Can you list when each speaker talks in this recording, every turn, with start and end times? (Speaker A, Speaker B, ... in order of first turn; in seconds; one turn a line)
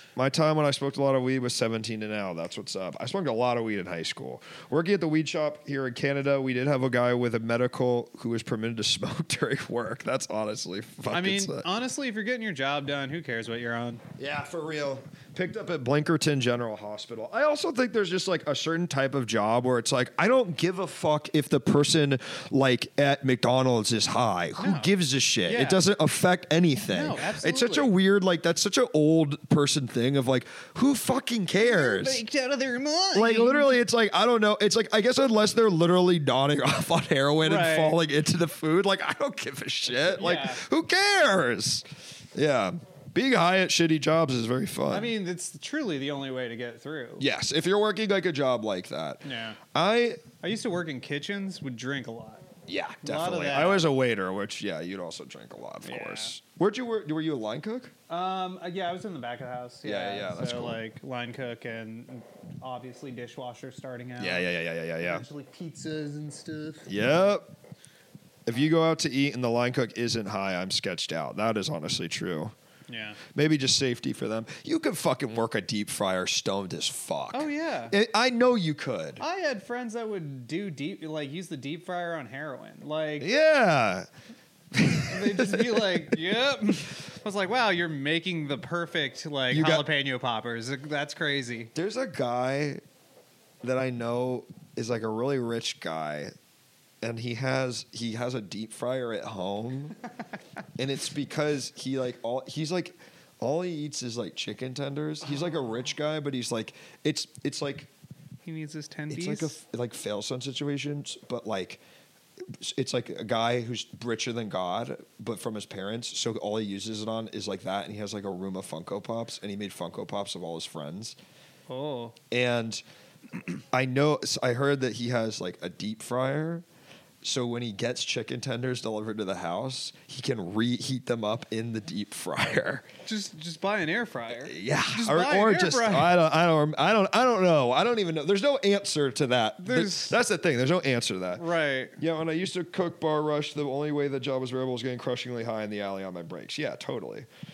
Speaker A: 0.2-11.7
Speaker B: 11.1-14.0
Speaker A: 14.2-32.2
Speaker B: 24.6-24.9
Speaker B: 25.5-25.8
Speaker B: 26.8-27.9
Speaker B: 31.6-33.7
Speaker A: 33.1-45.1
Speaker B: 37.4-38.0
Speaker B: 39.9-40.6
Speaker B: 44.9-47.2
Speaker A: 47.2-50.2
Speaker B: 49.2-49.6
Speaker B: 50.4-52.5
Speaker A: 52.7-57.9
Speaker B: 53.0-53.9
Speaker B: 55.8-56.3
Speaker B: 58.1-64.5
Speaker A: 59.8-60.8
Speaker A: 64.2-65.2
Speaker B: 65.0-67.0
Speaker A: 66.9-67.5
Speaker A: 68.5-72.5
Speaker B: 72.9-73.2
Speaker A: 73.3-79.2
Speaker B: 77.3-77.9
Speaker B: 79.2-83.3
Speaker A: 83.2-84.1
Speaker A: 84.7-86.1
Speaker B: 85.1-91.7
Speaker A: 89.5-89.9
Speaker A: 91.8-92.8
Speaker A: 93.6-96.3
Speaker A: 97.0-100.0
Speaker A: 100.8-107.9
Speaker B: 108.5-109.5
Speaker A: 109.1-111.8
Speaker A: 112.5-121.2
Speaker B: 121.7-122.2
Speaker A: 122.3-122.8
Speaker A: 123.4-126.7
Speaker A: 127.2-132.9
Speaker B: 133.1-136.2
Speaker A: 134.4-141.4
Speaker B: 139.6-140.2
Speaker B: 141.4-142.0
Speaker A: 142.0-147.3